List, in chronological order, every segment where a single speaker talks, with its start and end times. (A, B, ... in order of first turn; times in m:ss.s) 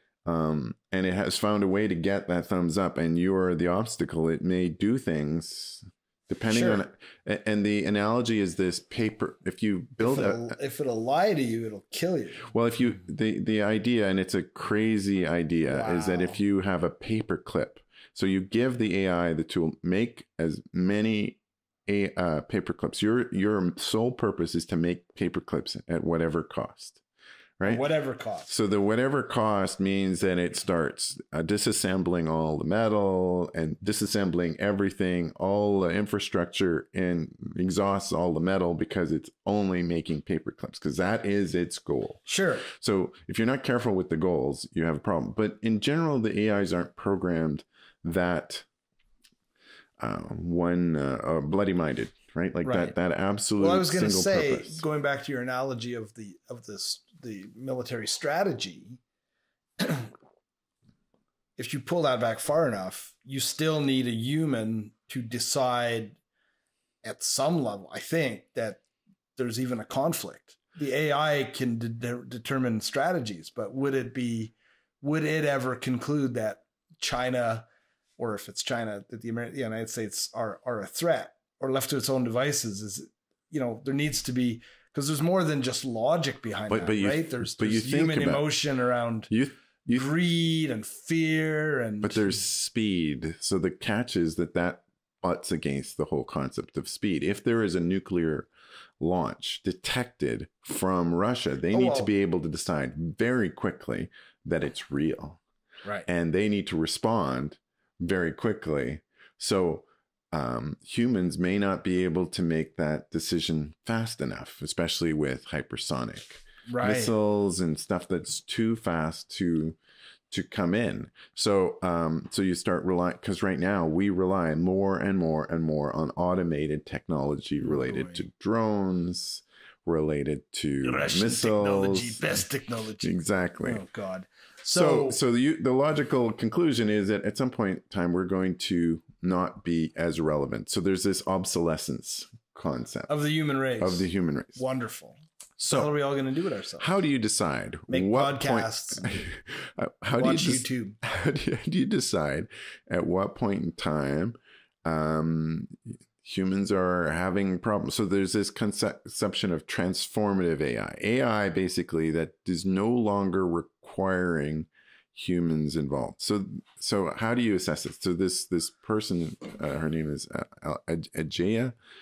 0:00.3-0:10.6 A
0:06.5-0:06.8 B
0:10.0-0:12.5 B
0:12.5-0:27.0 A
0:15.7-0:16.4 B
0:27.6-0:27.8 A
0:27.6-0:28.5 B
0:28.5-0:48.7 A
0:42.3-0:42.7 B
0:50.0-0:54.8 A
0:52.6-0:53.0 B
0:53.6-0:59.0 B
0:59.8-1:00.1 B
1:01.6-1:06.2 B
1:07.0-1:08.8 B
1:09.4-1:17.7 B
1:18.2-1:29.3 B
1:26.7-1:28.5 A
1:29.3-1:30.1 A
1:29.9-1:32.4 B
1:32.0-1:38.5 A
1:39.0-1:45.4 A
1:41.7-1:42.1 B
1:46.1-1:59.8 A
1:56.7-1:57.1 B
2:00.3-2:12.4 A
2:07.6-2:08.2 B
2:10.8-2:13.1 B
2:13.0-2:13.8 A
2:13.6-2:15.2 B
2:14.7-2:23.1 A
2:23.1-2:26.9 B
2:23.8-2:24.6 A
2:26.8-2:51.8 A
2:27.9-2:29.0 B
2:30.2-2:31.0 B